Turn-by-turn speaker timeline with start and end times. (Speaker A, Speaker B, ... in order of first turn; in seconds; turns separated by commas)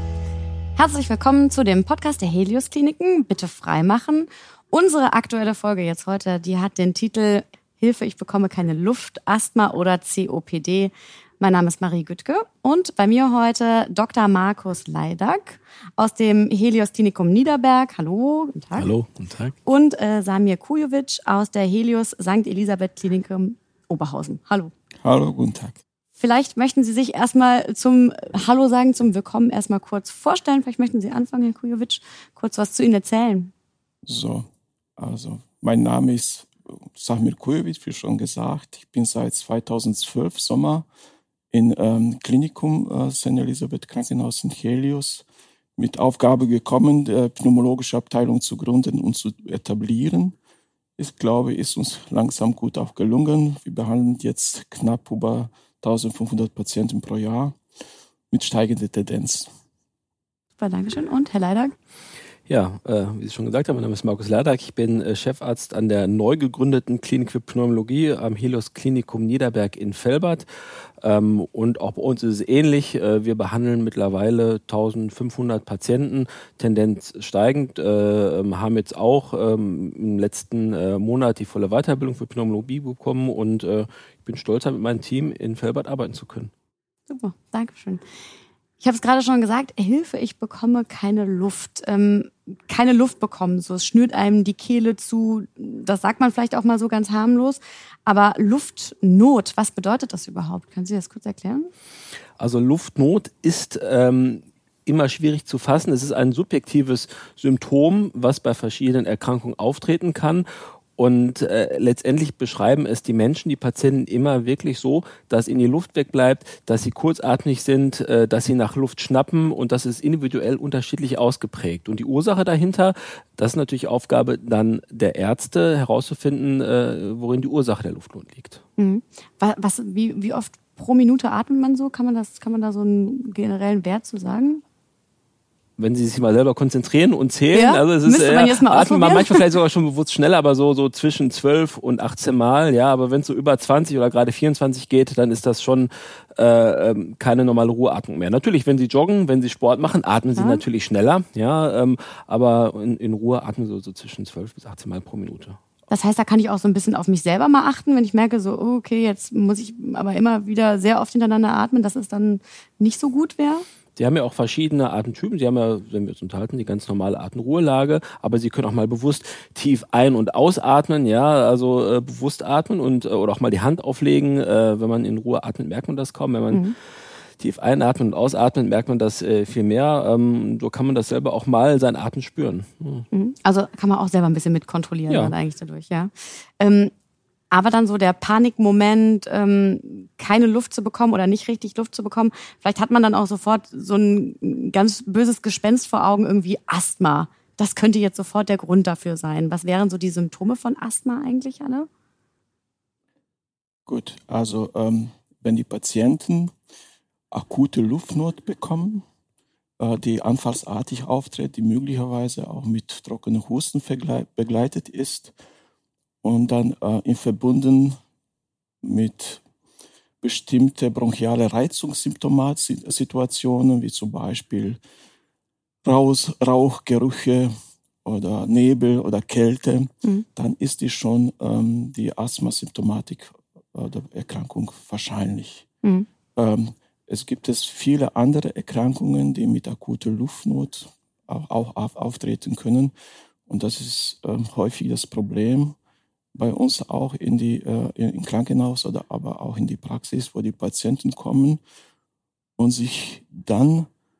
Speaker A: 0.8-18.9, Speaker B: 18.8-19.6, Speaker A: 19.6-24.7, Speaker C: 25.0-25.8, Speaker A: 26.2-33.5, Speaker C: 34.1-40.9, Speaker C: 41.5-50.4, Speaker C: 51.0-57.6, Speaker C: 58.3-59.5, Speaker A: 60.6-61.8, Speaker B: 62.5-70.5, Speaker B: 71.0-86.5, Speaker A: 87.1-88.0, Speaker A: 88.8-101.7, Speaker B: 102.4-110.5, Speaker B: 111.0-128.6, Speaker A: 128.8-134.6, Speaker B: 135.8-155.6, Speaker A: 137.5-139.5, Speaker A: 150.4-150.6, Speaker A: 155.9-163.7, Speaker B: 164.0-176.6, Speaker B: 177.4-183.1, Speaker A: 183.1-186.9, Speaker A: 187.5-201.9, Speaker C: 203.9-206.5, Speaker C: 207.3-209.0, Speaker C: 209.8-215.3, Speaker C: 216.2-218.0, Speaker C: 218.8-219.4, Speaker C: 220.2-224.8, Speaker C: 225.8-227.5, Speaker C: 228.0-235.7, Speaker C: 236.4-242.9, Speaker C: 243.5-245.8, Speaker C: 246.3-251.6, Speaker C: 252.6-253.9